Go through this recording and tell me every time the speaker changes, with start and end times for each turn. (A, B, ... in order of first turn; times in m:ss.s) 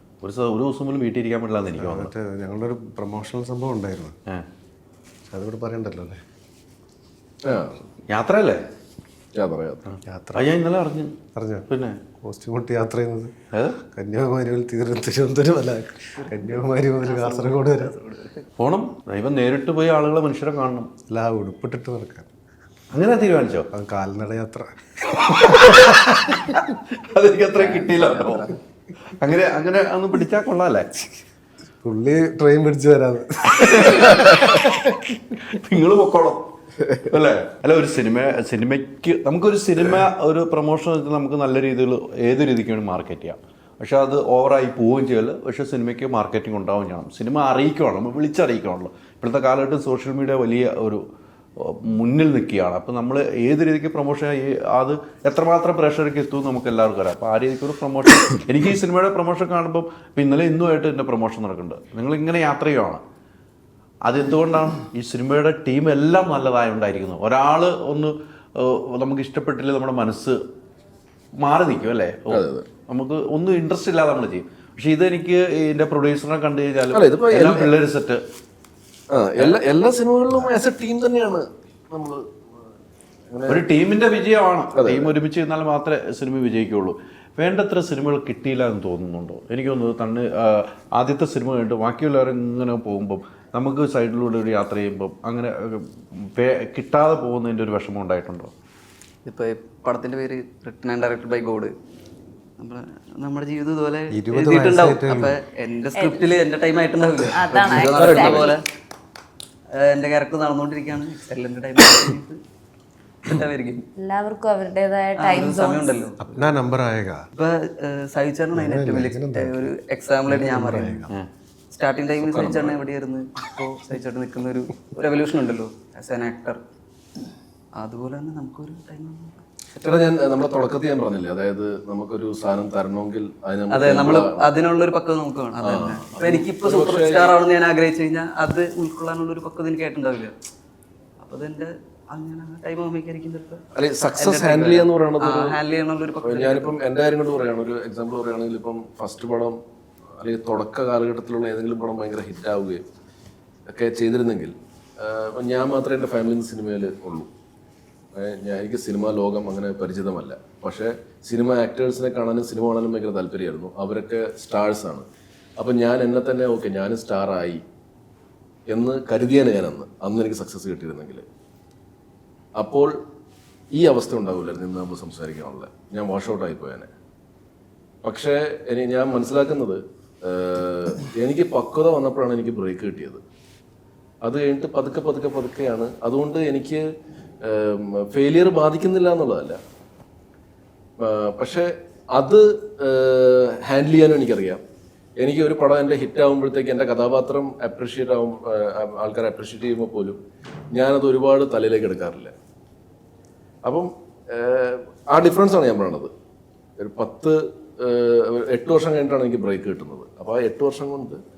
0:00.2-0:02.1 A
0:01.8-0:04.2 B
0:05.3-0:06.2 B
0:07.4-0:07.8 C
0:08.1-0:08.6 A
0:09.3-0:09.8 C
0:09.9-0:11.2 A
0:10.0-0:10.5 B
0:11.3-0:11.7 B
0:11.7-0:12.0 A
0:12.2-0:13.3 B
0:13.5-0:13.8 A
0:13.9-0:17.9 B
0:16.2-0:18.4 D
0:18.6-0:20.9 A
0:21.1-0:22.3 B
0:22.9-0:23.7 A
0:23.7-0:24.7 B
0:25.2-0:28.5 A
0:27.6-0:28.5 D
0:29.2-0:31.0 A
0:31.8-0:34.3 B
0:33.6-0:51.0 A
0:51.6-1:03.0 A
1:04.0-1:10.4 A
1:11.4-1:18.2 A
1:12.3-1:12.7 C
1:16.9-1:17.7 C
1:19.1-1:22.2 C
1:23.3-1:23.6 C
1:23.5-1:38.5 A
1:24.7-1:25.1 C
1:39.2-1:41.7 D
1:42.6-1:48.6 D
1:44.1-1:45.4 B
1:45.9-1:46.2 E
1:47.3-1:48.5 E
1:47.8-1:48.5 C
1:49.8-1:52.4 D
1:53.2-1:53.8 D
1:54.0-1:56.0 E
1:55.2-1:56.5 D
1:56.2-1:57.2 B
1:57.3-2:01.1 D
1:58.5-1:59.7 B
2:00.3-2:01.1 B
2:01.7-2:06.6 D
2:02.2-2:02.8 C
2:07.8-2:09.4 D
2:09.8-2:14.4 C
2:13.7-2:20.3 D
2:15.6-2:17.4 C
2:21.2-2:23.6 D
2:23.7-2:25.6 C
2:24.2-2:26.8 D
2:26.2-2:29.6 C
2:30.2-2:32.8 C
2:33.7-2:37.3 C
2:38.1-2:45.0 C
2:45.6-2:47.6 C
2:48.7-2:51.2 C
2:52.6-2:52.9 C
2:53.7-2:56.9 C
2:58.0-3:03.2 C
3:04.2-3:06.8 C
3:07.4-3:09.6 C
3:11.0-3:14.6 C
3:15.2-3:20.2 C
3:20.7-3:22.3 C
3:23.6-3:26.1 C
3:26.8-3:31.2 C